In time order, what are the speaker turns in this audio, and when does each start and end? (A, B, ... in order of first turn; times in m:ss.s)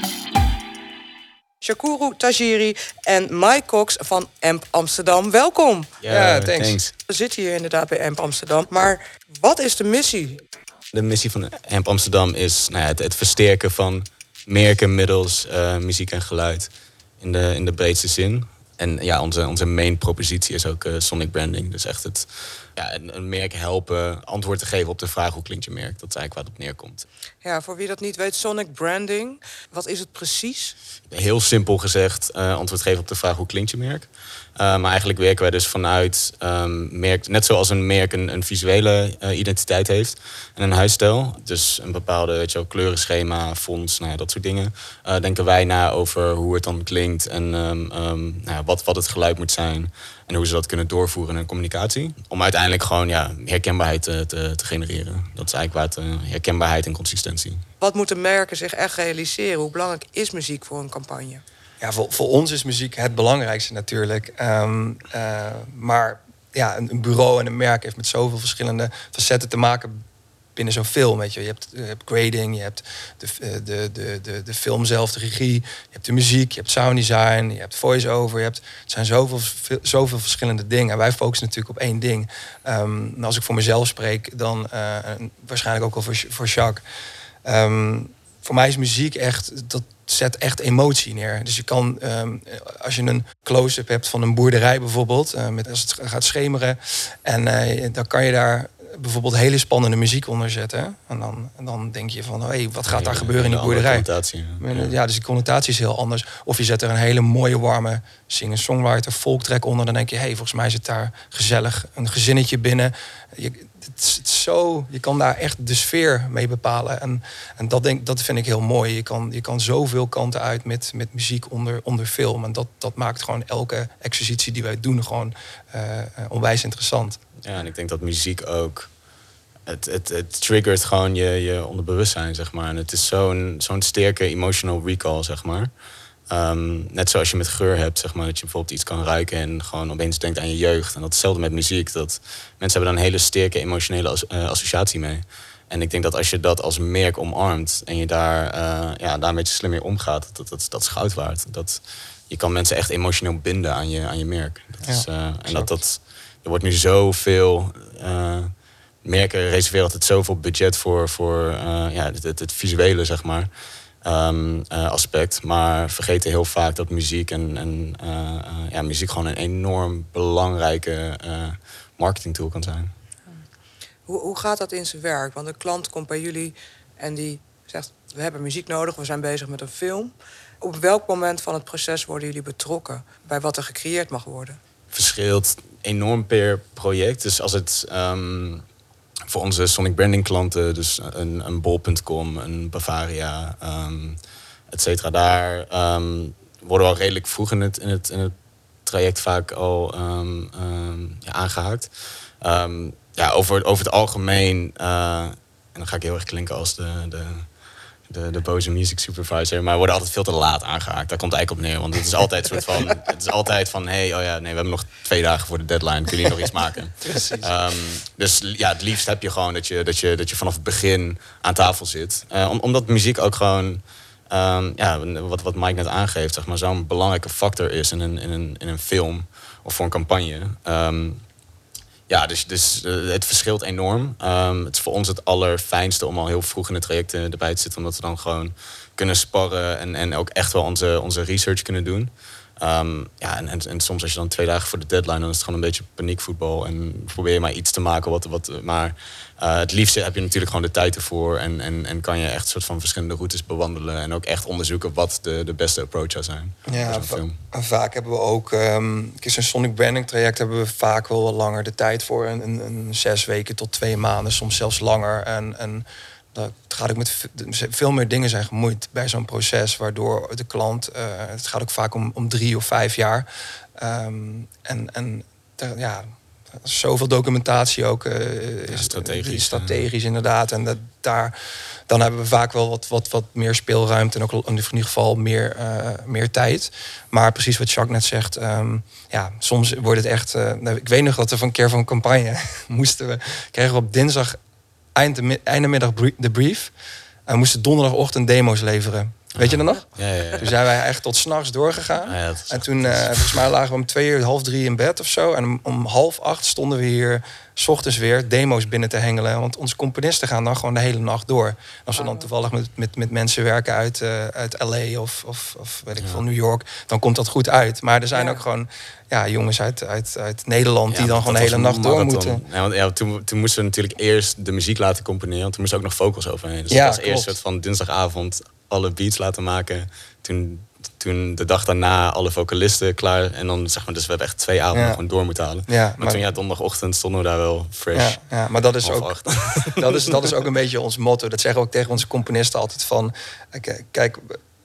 0:01.6-0:05.9 A
0:06.0-0:06.9 B
0:06.1-0:06.8 C
0:07.1-0:10.4 A
0:10.9-0:27.1 B
0:27.4-0:30.8 A
0:31.1-0:57.6 B
0:57.8-1:01.4 A
1:01.8-1:10.0 C
1:10.6-1:26.8 C
1:27.4-1:44.1 C
1:42.9-1:44.9 B
1:44.6-2:07.2 C
2:07.4-2:08.9 B
2:09.7-2:15.7 B
2:16.3-2:38.5 B
2:34.8-2:35.8 C
2:39.0-2:43.5 B
2:44.0-2:52.9 B
2:54.1-3:04.6 A
3:04.9-3:08.6 B
3:09.3-3:14.2 B
3:14.7-3:18.3 B
3:18.9-3:21.9 B
3:22.4-3:27.5 B
3:28.1-3:51.2 B
3:37.0-3:37.5 C
3:52.1-4:17.4 B
4:16.7-4:41.4 C
4:38.7-4:39.9 B
4:41.9-4:54.4 C
4:55.0-4:56.7 C
4:57.3-5:22.4 C
4:59.4-5:00.5 B
5:02.0-5:03.5 B
5:11.9-5:12.3 A
5:18.1-5:18.4 A
5:20.9-5:38.2 B
5:26.7-5:27.4 C
5:34.7-5:35.0 C
5:35.7-5:36.2 C
5:37.9-5:39.1 C
5:38.8-5:40.3 B
5:39.7-5:44.4 C